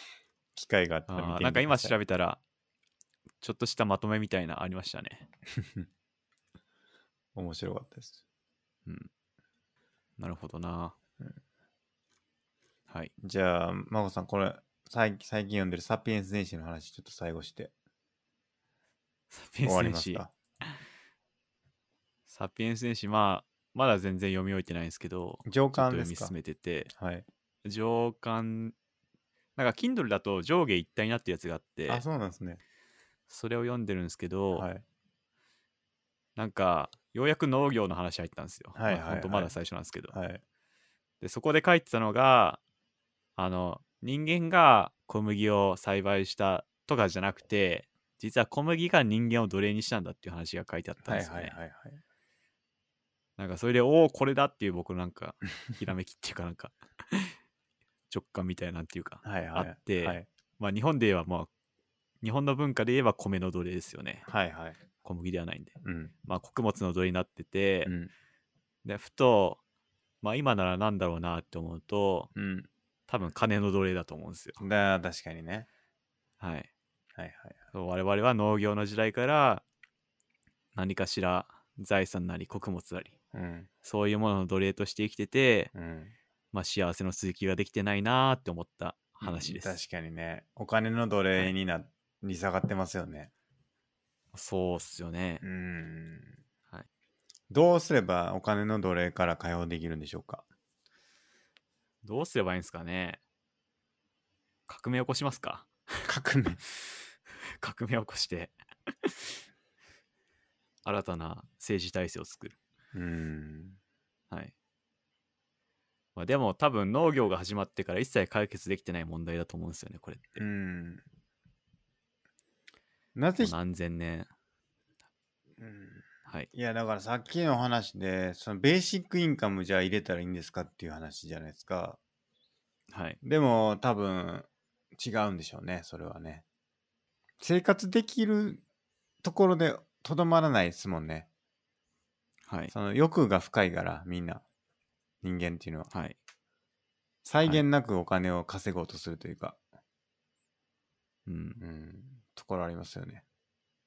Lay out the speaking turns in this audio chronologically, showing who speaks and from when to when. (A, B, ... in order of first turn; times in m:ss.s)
0:00.5-0:01.9 A
0:01.1-0:02.4 B
0:03.4-0:05.2 B
0:05.6-0:05.9 A
0:07.3-0:08.2 A
0:10.2-0:10.9 B
0:13.2-0:17.7 A
0:19.3-0:20.8 B
0:19.6-0:20.3 A
0:22.3-0:26.9 B
0:25.4-0:26.3 A
0:26.9-0:27.2 A
0:27.6-0:28.7 B
0:29.6-0:32.0 B
0:31.9-0:32.6 A
0:33.3-0:34.6 B
0:34.5-0:34.8 A
0:36.4-0:40.1 B
0:38.8-0:39.6 A
0:40.1-0:40.4 A
0:41.2-0:42.6 B
0:43.4-0:51.6 B
0:51.0-0:52.0 A
0:53.4-0:57.3 B
0:58.1-1:01.5 B
0:59.2-1:00.3 A
1:02.2-1:04.3 B
1:04.3-1:04.8 A
1:05.0-1:05.7 B
1:05.8-1:06.1 A
1:06.2-1:07.9 B
1:07.8-1:08.1 A
1:08.8-1:09.6 B
1:10.2-1:12.3 B
1:12.3-1:12.7 A
1:13.1-1:14.6 B
1:14.6-1:15.7 A
1:16.4-1:16.7 B
1:17.2-1:17.6 A
1:17.7-1:19.6 B
1:20.7-1:23.1 B
1:23.3-1:23.7 A
1:23.8-1:25.7 B
1:25.7-1:26.1 A
1:26.5-1:29.7 B
1:29.2-1:33.3 A
1:34.3-1:35.4 B
1:35.4-1:36.4 A
1:37.5-1:40.4 A
1:42.0-1:43.2 B
1:44.7-1:46.1 B
1:46.0-1:46.6 A
1:47.5-1:49.4 B
1:50.8-1:52.6 B
1:52.9-1:53.8 A
1:56.2-2:00.4 B
2:00.4-2:01.0 A
2:03.2-2:03.5 A
2:03.4-2:04.3 B
2:05.6-2:12.0 A
2:12.9-2:13.2 B
2:13.2-2:16.4 A
2:17.4-2:18.6 A
2:19.2-2:21.3 A
2:22.4-2:22.7 B
2:22.7-2:24.4 A
2:25.2-2:25.9 A
2:27.2-2:29.6 A
2:31.2-2:31.6 B
2:31.6-2:33.2 A